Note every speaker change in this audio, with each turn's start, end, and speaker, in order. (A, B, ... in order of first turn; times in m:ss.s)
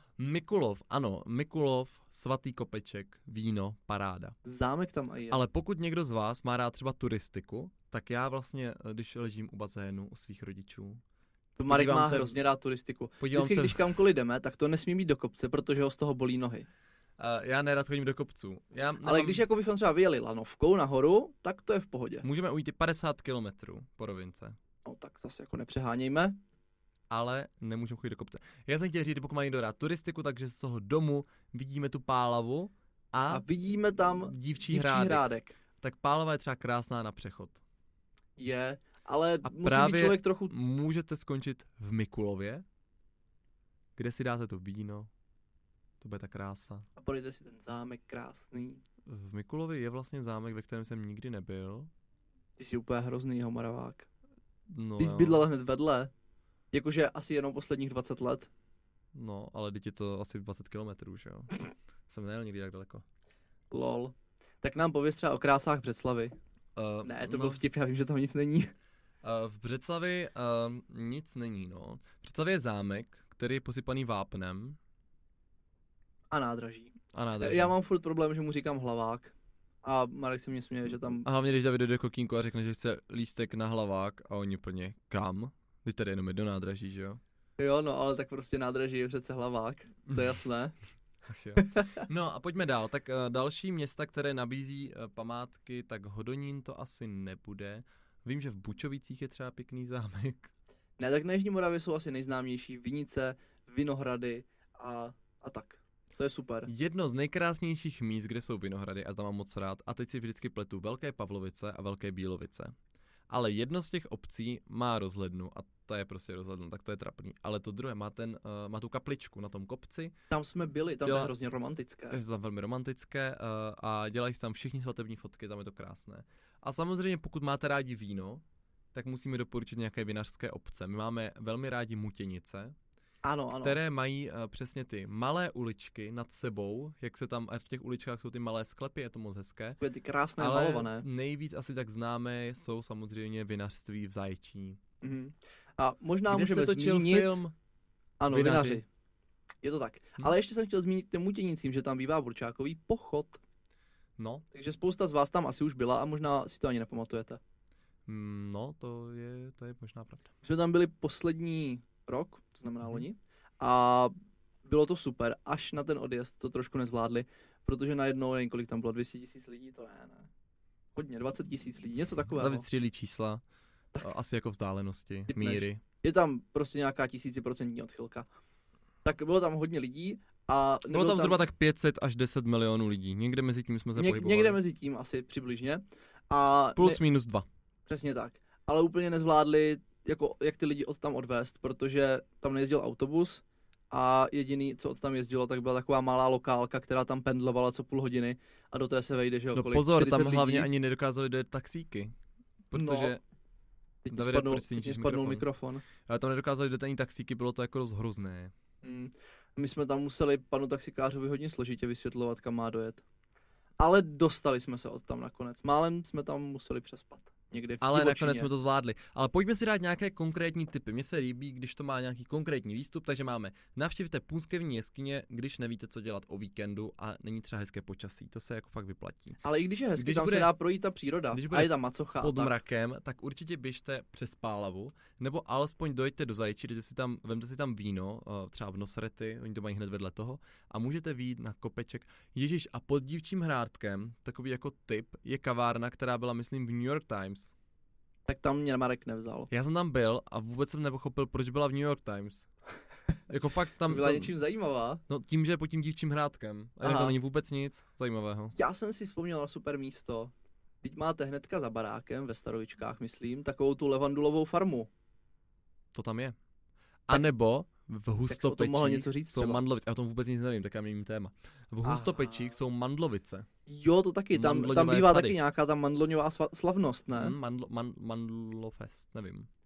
0:00.2-0:04.4 A
0:04.4-0:05.4 B
0:05.3-0:11.0 A
0:11.6-0:16.7 B
0:11.7-0:12.4 A
0:13.2-0:13.8 A
0:17.2-0:19.4 A
0:19.0-0:22.2 B
0:22.2-0:24.6 A
0:24.8-0:26.4 B
0:27.1-0:33.4 A
0:33.3-0:35.5 B
0:34.2-0:35.2 A
0:35.8-0:37.6 A
0:38.4-0:40.5 B
0:39.4-0:42.6 A
0:44.0-0:45.1 A
0:46.0-0:46.9 A
0:47.0-0:48.8 B
0:49.1-0:51.9 A
0:52.6-0:54.1 B
0:54.7-0:55.4 A
0:55.0-0:56.1 B
0:56.7-0:58.5 B
0:59.1-1:03.0 A
1:03.7-1:06.3 B
1:06.8-1:07.6 A
1:07.0-1:08.7 B
1:09.2-1:14.8 A
1:16.3-1:21.2 B
1:17.1-1:17.7 A
1:21.2-1:27.2 A
1:27.6-1:30.7 B
1:31.2-1:40.5 A
1:31.6-1:31.9 B
1:41.0-1:46.7 B
1:46.6-1:52.7 A
1:53.3-2:00.1 A
2:00.3-2:02.2 B
2:01.0-2:01.3 A
2:02.1-2:08.4 A
2:08.9-2:12.8 A
2:13.2-2:13.8 B
2:13.6-2:19.8 A
2:19.8-2:21.0 B
2:20.4-2:24.8 A
2:25.0-2:27.4 B
2:26.3-2:27.5 A
2:28.2-2:28.8 B
2:28.3-2:28.8 A
2:29.6-2:33.4 B
2:34.2-2:34.4 A
2:34.5-2:37.4 B
2:38.1-2:40.3 A
2:40.4-2:44.1 B
2:44.6-2:50.3 B
2:51.0-2:52.6 B
2:52.4-2:53.4 A
2:54.0-2:55.8 A
2:55.3-2:58.3 B
2:59.0-3:01.4 B
3:00.9-3:04.6 A
3:04.0-3:07.0 B
3:06.8-3:07.5 A
3:07.9-3:20.7 B
3:19.5-3:22.1 A
3:22.7-3:23.2 A
3:22.7-3:23.2 B
3:24.0-3:25.8 B
3:24.1-3:25.5 A
3:26.0-3:28.5 A
3:28.8-3:33.0 B
3:33.8-3:38.5 B
3:37.8-3:49.4 A
3:49.4-3:52.5 B
3:50.0-3:50.5 A
3:51.3-4:07.5 A
4:08.2-4:09.5 B
4:09.5-4:12.5 A
4:13.3-4:14.3 A
4:13.9-4:15.0 B
4:15.1-4:18.6 A
4:16.8-4:17.1 B
4:18.6-4:24.9 B
4:25.9-4:26.4 A
4:27.1-4:33.5 A
4:28.3-4:29.6 B
4:31.8-4:32.5 B
4:33.7-4:37.4 B
4:34.3-4:35.4 A
4:37.1-4:39.5 A